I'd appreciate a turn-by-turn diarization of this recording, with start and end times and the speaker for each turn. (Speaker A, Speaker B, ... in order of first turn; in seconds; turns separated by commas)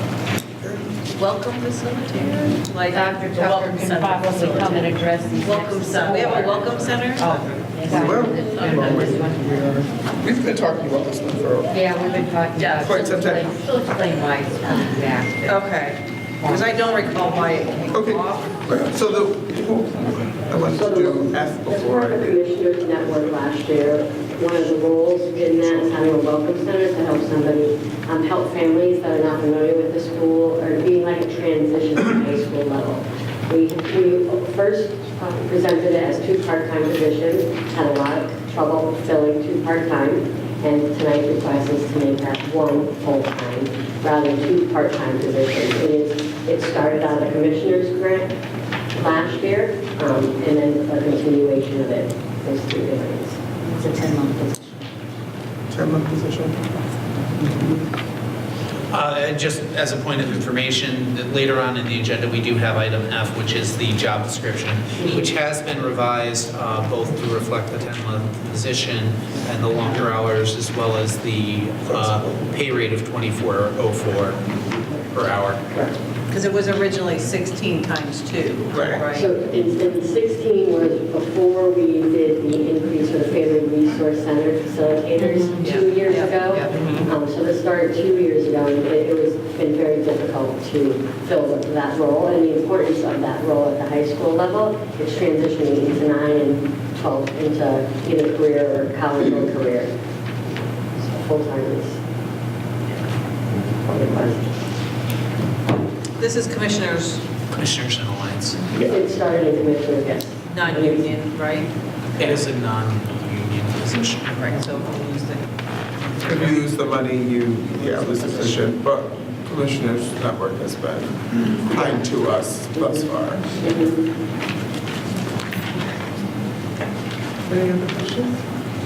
Speaker A: 0.6-0.9, Speaker B: 1.1-7.4, Speaker C: 2.9-9.8, Speaker A: 7.8-11.8, Speaker B: 8.5-8.8, Speaker C: 11.7-15.7, Speaker B: 12.6-12.9, Speaker A: 12.8-13.5, Speaker B: 15.5-18.6, Speaker C: 16.4-16.8, Speaker A: 17.9-22.4, Speaker D: 20.7-48.4, Speaker D: 49.0-54.6, Speaker C: 53.8-54.4, Speaker A: 55.7-56.8, Speaker A: 57.4-57.9, Speaker E: 58.9-75.6, Speaker A: 71.9-72.5, Speaker D: 75.7-76.0, Speaker B: 76.3-79.3, Speaker A: 78.7-79.1, Speaker D: 79.1-99.9, Speaker C: 85.2-85.7, Speaker B: 85.6-86.7, Speaker C: 86.4-86.8, Speaker A: 86.7-87.1, Speaker D: 101.0-102.0, Speaker D: 103.5-104.6, Speaker B: 106.2-107.2, Speaker E: 107.5-108.6, Speaker A: 108.7-109.0, Speaker D: 108.8-111.1, Speaker B: 110.5-112.4, Speaker E: 112.2-114.6, Speaker B: 114.4-115.4, Speaker B: 116.0-116.8, Speaker A: 116.2-123.8, Speaker B: 118.2-118.5, Speaker A: 127.4-128.4